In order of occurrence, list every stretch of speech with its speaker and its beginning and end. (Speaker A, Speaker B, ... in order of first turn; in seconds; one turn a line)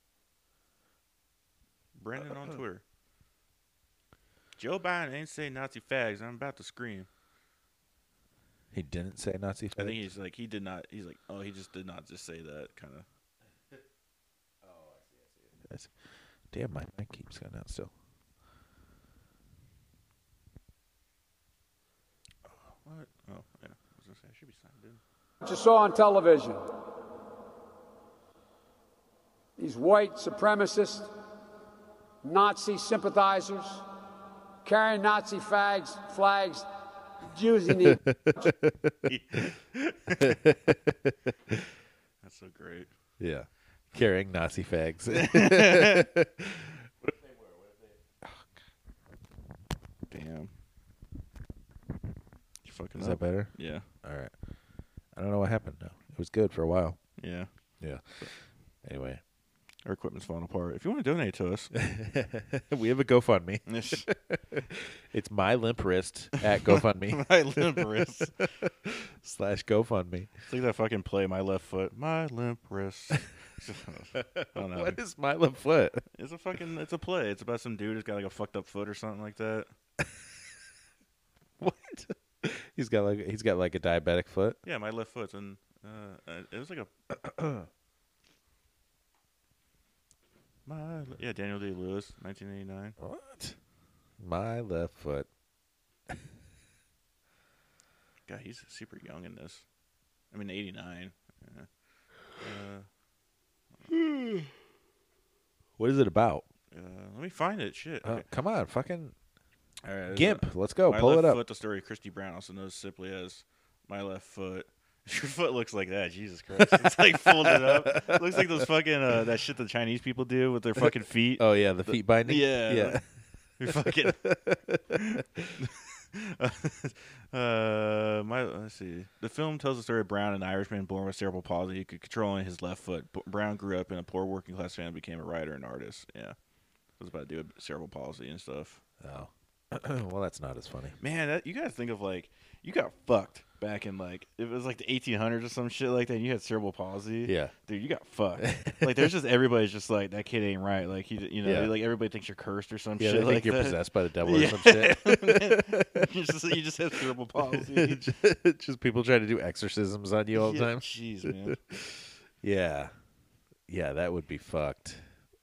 Speaker A: 2.0-2.8
Speaker A: 4.6-7.1
Speaker B: 8.7-10.0
Speaker A: 9.8-13.1
Speaker B: 14.6-15.9
Speaker B: 16.5-17.9
Speaker A: 22.7-25.0
Speaker C: 25.4-26.6
Speaker C: 29.6-31.1
Speaker C: 32.2-33.9
Speaker C: 34.6-36.7
Speaker C: 37.2-38.5
Speaker B: 37.8-39.5
Speaker A: 39.1-40.4
Speaker B: 40.2-41.6
Speaker A: 42.2-42.9
Speaker B: 43.2-48.4
Speaker A: 45.1-46.1
Speaker A: 50.1-50.5
Speaker A: 52.6-53.9
Speaker B: 53.0-54.3
Speaker B: 55.1-57.0
Speaker A: 57.2-57.5
Speaker B: 57.8-58.3
Speaker B: 58.8-59.2
Speaker A: 59.9-61.7
Speaker B: 61.7-70.3
Speaker A: 63.7-64.1
Speaker A: 66.5-68.4
Speaker A: 70.5-75.0
Speaker B: 74.1-76.0
Speaker A: 76.1-79.7
Speaker B: 81.6-84.6
Speaker A: 84.6-86.9
Speaker B: 87.1-87.7
Speaker A: 90.7-93.0
Speaker B: 93.0-93.5
Speaker B: 94.2-95.3
Speaker A: 98.3-99.7
Speaker A: 100.3-101.7
Speaker A: 102.4-102.9
Speaker B: 104.1-104.5
Speaker B: 105.8-106.4
Speaker A: 106.7-108.3
Speaker B: 108.0-109.1
Speaker A: 109.8-123.0
Speaker B: 110.1-111.4
Speaker B: 116.6-118.5
Speaker B: 120.8-123.0
Speaker A: 123.6-124.3
Speaker B: 123.7-125.5
Speaker A: 124.9-136.3
Speaker A: 137.0-138.8
Speaker B: 139.0-141.0
Speaker A: 141.0-158.2
Speaker B: 147.3-147.5
Speaker B: 148.4-149.1
Speaker B: 151.4-151.7
Speaker B: 153.0-156.0
Speaker B: 157.5-162.9
Speaker A: 160.3-161.6
Speaker B: 163.7-165.0